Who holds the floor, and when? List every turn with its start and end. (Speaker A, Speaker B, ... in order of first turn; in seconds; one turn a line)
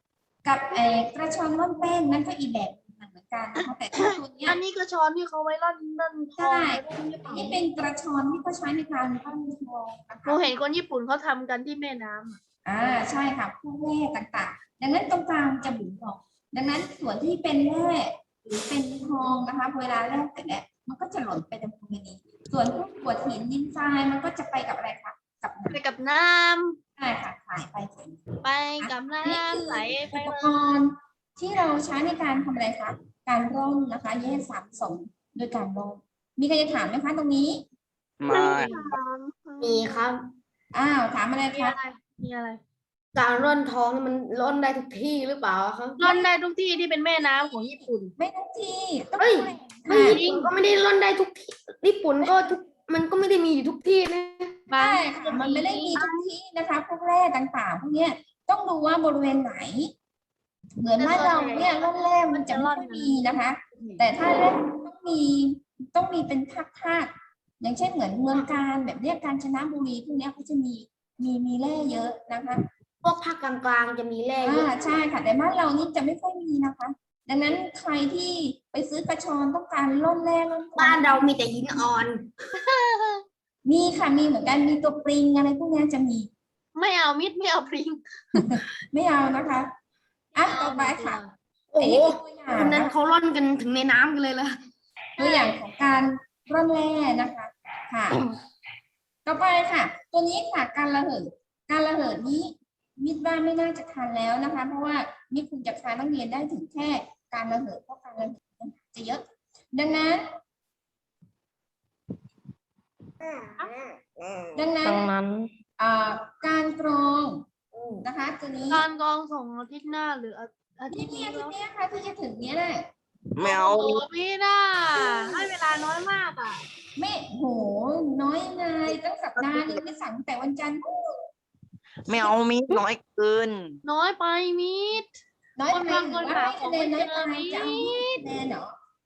Speaker A: 0.4-4.6
Speaker B: 4.5-7.6
Speaker A: 6.4-10.5
Speaker B: 10.2-12.4
Speaker A: 12.7-25.8
Speaker B: 25.7-26.8
Speaker A: 27.0-28.2
Speaker B: 28.4-30.6
Speaker A: 28.8-37.6
Speaker C: 38.2-38.7
Speaker D: 38.3-39.9
Speaker B: 38.3-38.9
Speaker E: 39.6-40.2
Speaker A: 40.7-41.8
Speaker B: 41.5-42.6
Speaker E: 43.1-46.2
Speaker B: 46.0-48.1
Speaker A: 47.2-50.2
Speaker E: 49.2-54.6
Speaker B: 49.9-50.5
Speaker B: 54.7-56.1
Speaker A: 54.8-59.9
Speaker A: 60.8-72.6
Speaker B: 61.0-61.8
Speaker B: 62.3-63.2
Speaker E: 73.0-75.0
Speaker A: 74.4-81.3
Speaker E: 80.8-82.3
Speaker B: 82.5-83.2
Speaker A: 83.6-86.3
Speaker B: 86.7-88.5
Speaker A: 88.3-89.7
Speaker A: 90.3-91.2
Speaker B: 90.4-91.3
Speaker E: 91.7-94.6
Speaker A: 91.8-92.9
Speaker A: 95.2-98.2
Speaker B: 95.2-95.5
Speaker A: 99.2-110.3
Speaker E: 113.2-114.5
Speaker A: 114.5-115.1
Speaker D: 114.8-115.5
Speaker A: 115.8-117.4
Speaker E: 117.7-118.0
Speaker A: 118.0-118.8
Speaker B: 118.7-121.5
Speaker A: 120.9-122.9
Speaker C: 123.3-124.0
Speaker B: 123.4-126.6
Speaker A: 127.0-130.8
Speaker C: 132.1-133.8
Speaker B: 133.8-135.1
Speaker A: 135.6-138.7
Speaker B: 135.7-138.2